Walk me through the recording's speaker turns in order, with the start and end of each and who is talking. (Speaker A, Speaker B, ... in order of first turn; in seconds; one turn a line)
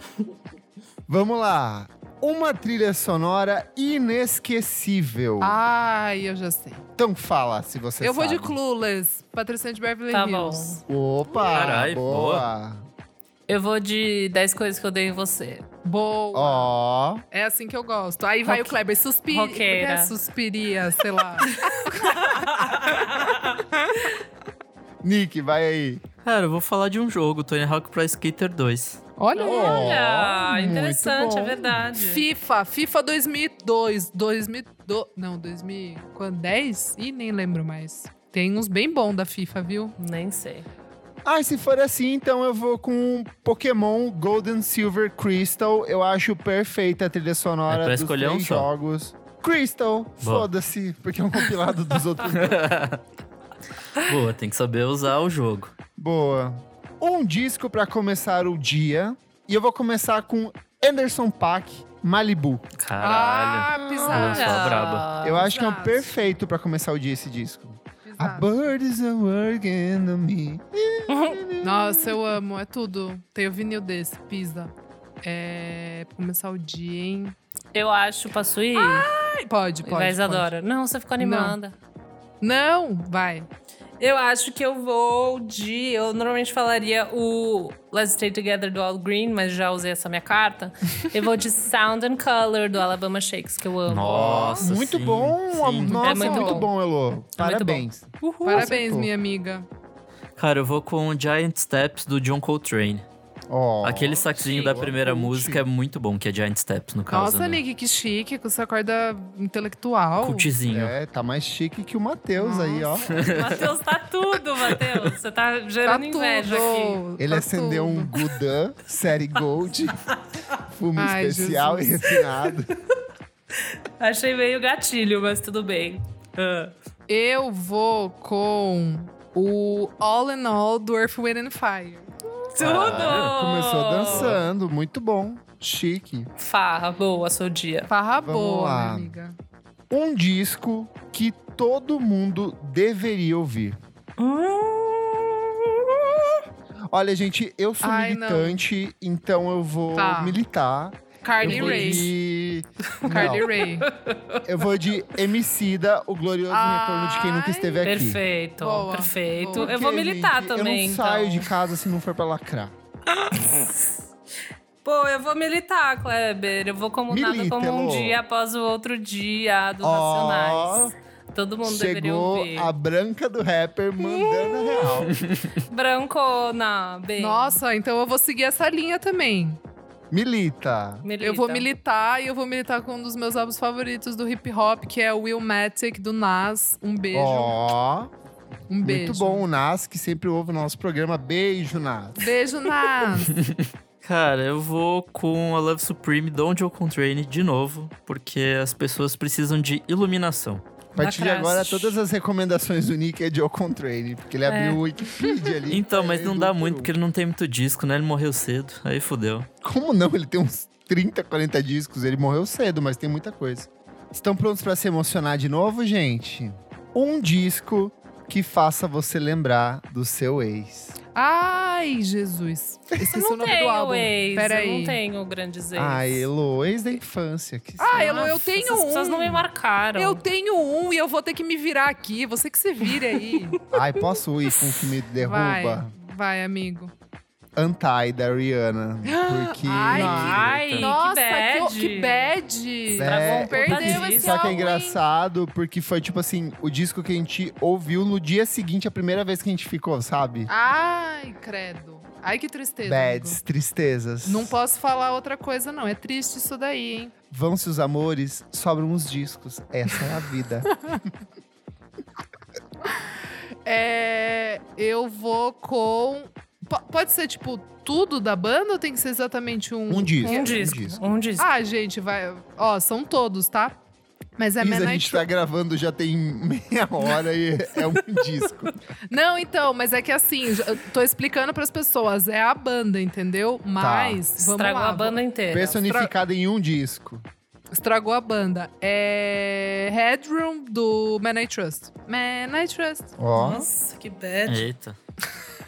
Speaker A: 1.1-5.6
Speaker B: 5.4-6.8
Speaker A: 7.0-8.6
Speaker B: 8.0-10.8
Speaker C: 10.1-10.8
Speaker A: 10.9-12.8
Speaker D: 11.5-12.4
Speaker C: 13.5-15.7
Speaker B: 15.8-16.7
Speaker A: 16.3-17.2
Speaker B: 17.3-22.5
Speaker C: 19.3-20.1
Speaker C: 21.7-23.4
Speaker A: 25.0-26.0
Speaker D: 26.2-29.0
Speaker B: 29.2-29.9
Speaker C: 29.3-32.2
Speaker A: 29.4-31.8
Speaker B: 32.0-39.9
Speaker C: 40.0-40.6
Speaker A: 41.2-52.6
Speaker D: 47.7-48.7
Speaker D: 50.2-50.5
Speaker D: 52.3-53.0
Speaker D: 54.0-55.7
Speaker A: 56.0-62.6
Speaker D: 62.8-65.0
Speaker B: 63.0-66.2
Speaker C: 64.1-65.5
Speaker A: 65.2-72.4
Speaker B: 68.0-68.6
Speaker C: 71.1-71.4
Speaker B: 71.6-74.7
Speaker B: 75.2-77.3
Speaker C: 77.7-79.1
Speaker B: 78.7-80.5
Speaker C: 79.8-81.8
Speaker B: 81.2-81.6
Speaker B: 82.4-83.5
Speaker C: 84.0-94.6
Speaker D: 93.9-96.0
Speaker A: 94.0-99.1
Speaker B: 95.9-96.6
Speaker C: 96.0-96.7
Speaker C: 97.4-98.8
Speaker B: 98.4-99.7
Speaker D: 100.4-103.0
Speaker A: 103.5-105.6
Speaker D: 103.8-107.6
Speaker B: 107.1-110.5
Speaker D: 110.2-110.9
Speaker A: 110.7-113.4
Speaker B: 112.4-112.9
Speaker D: 113.1-113.6
Speaker C: 113.2-117.0
Speaker B: 115.8-118.1
Speaker A: 117.2-120.0
Speaker A: 120.6-122.7
Speaker B: 121.0-122.2
Speaker C: 124.0-126.7
Speaker B: 127.1-132.1
Speaker C: 132.5-134.3
Speaker D: 132.6-133.3
Speaker A: 132.6-136.3
Speaker D: 134.0-134.4
Speaker C: 136.4-137.9
Speaker B: 137.9-139.4
Speaker A: 138.2-139.2
Speaker A: 139.9-143.8
Speaker C: 144.2-146.1
Speaker A: 146.9-153.4
Speaker B: 147.8-148.6
Speaker B: 149.9-150.4
Speaker B: 151.2-152.1
Speaker C: 151.4-152.0
Speaker C: 153.0-154.4
Speaker B: 153.1-153.9
Speaker A: 154.4-158.2
Speaker B: 156.5-157.9
Speaker C: 157.8-161.5
Speaker B: 158.6-159.7
Speaker A: 159.5-162.7
Speaker C: 163.3-163.9
Speaker C: 164.8-172.7
Speaker A: 167.1-168.2
Speaker A: 169.8-170.9
Speaker A: 171.6-175.2
Speaker C: 174.1-174.8
Speaker D: 175.1-175.5
Speaker C: 175.7-177.6
Speaker B: 177.2-179.6
Speaker A: 180.1-181.1
Speaker C: 181.0-181.7
Speaker B: 181.2-187.5
Speaker A: 187.1-188.1
Speaker B: 188.7-189.4
Speaker A: 188.8-192.2
Speaker B: 192.2-193.4
Speaker D: 193.4-200.6
Speaker C: 200.9-202.0
Speaker A: 200.9-206.9
Speaker C: 204.4-205.2
Speaker D: 205.7-209.5
Speaker A: 209.6-220.9
Speaker B: 221.1-225.0
Speaker C: 223.1-226.3
Speaker A: 225.7-228.4
Speaker B: 227.8-233.6
Speaker C: 227.9-230.2
Speaker A: 233.7-235.9
Speaker B: 235.2-236.9
Speaker A: 237.6-240.6
Speaker B: 239.1-245.0
Speaker C: 239.9-242.3
Speaker D: 240.4-240.9
Speaker C: 242.9-244.7
Speaker A: 242.9-250.5
Speaker B: 250.5-253.4
Speaker A: 252.8-254.6
Speaker B: 254.2-257.1
Speaker A: 257.3-260.7
Speaker B: 263.6-270.5
Speaker A: 269.9-271.0
Speaker C: 270.2-271.5
Speaker B: 271.4-273.8
Speaker B: 274.4-275.2
Speaker A: 274.6-278.8
Speaker B: 279.1-285.2
Speaker A: 283.8-284.2
Speaker C: 284.4-285.8
Speaker A: 285.5-287.2
Speaker B: 285.8-286.1
Speaker B: 287.7-293.7
Speaker A: 293.2-293.6
Speaker C: 293.3-294.6
Speaker D: 294.4-295.0